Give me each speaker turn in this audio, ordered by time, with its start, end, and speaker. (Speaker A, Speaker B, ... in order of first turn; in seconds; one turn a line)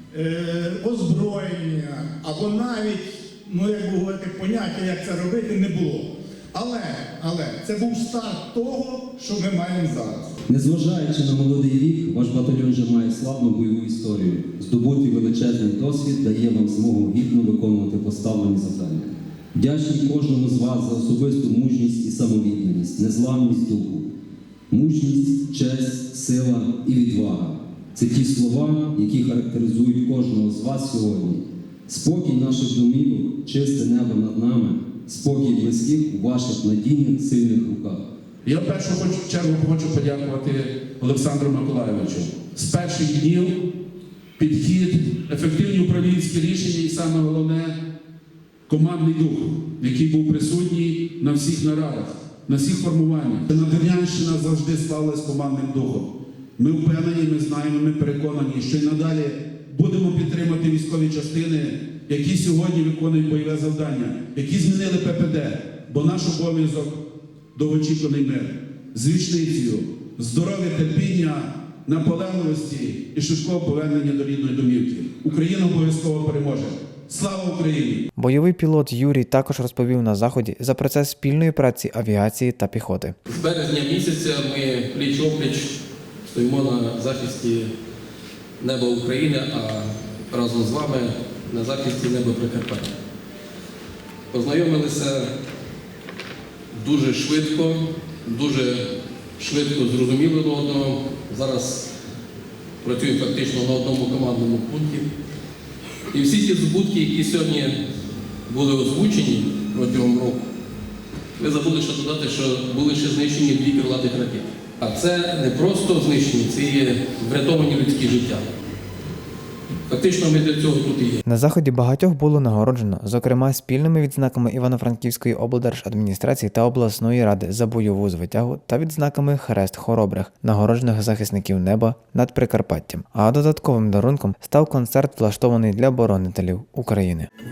Speaker A: 0.1-10.3
Speaker B: 10.5-24.1
Speaker B: 24.7-38.1
Speaker C: 38.5-43.7
Speaker C: 44.4-47.8
Speaker C: 48.7-67.0
Speaker C: 67.5-78.0
Speaker D: 78.2-83.2
Speaker E: 83.3-85.8
Speaker E: 86.3-87.7
Speaker E: 88.6-92.9
Speaker E: 94.3-95.3
Speaker E: 96.8-98.8
Speaker E: 99.4-101.9
Speaker E: 102.8-105.1
Speaker E: 106.1-107.8
Speaker E: 108.5-110.5
Speaker E: 111.4-118.5
Speaker E: 119.9-121.2
Speaker D: 121.3-137.3